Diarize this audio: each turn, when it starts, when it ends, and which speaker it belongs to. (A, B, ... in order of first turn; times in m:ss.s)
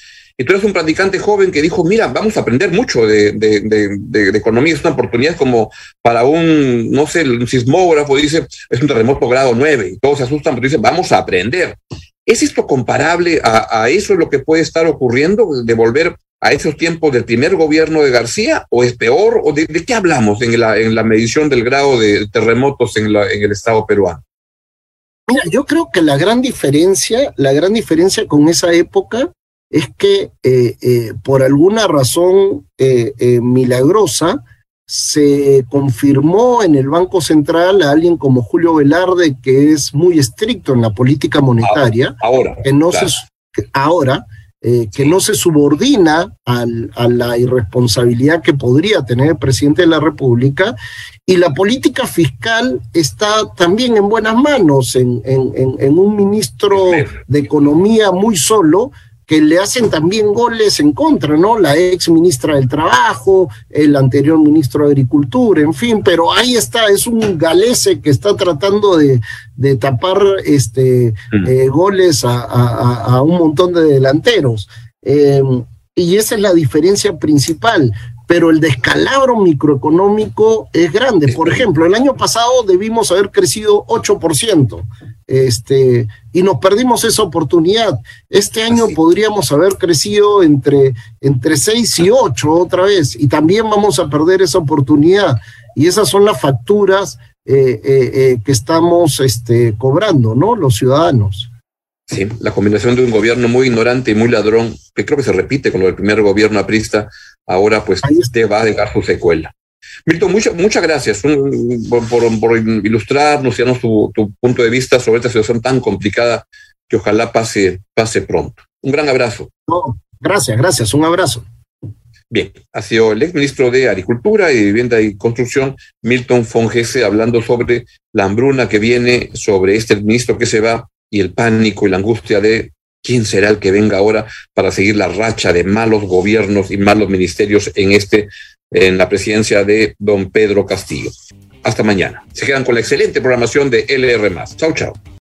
0:00.4-0:24.2 A
0:25.3-0:50.7 B
0:41.6-0:43.1 A
0:51.3-1:41.5 B
0:56.8-0:57.1 A
1:42.1-1:49.5 A
1:48.0-1:48.3 B
1:50.0-1:59.5 A
1:59.7-2:01.4 B
2:02.3-2:25.0 A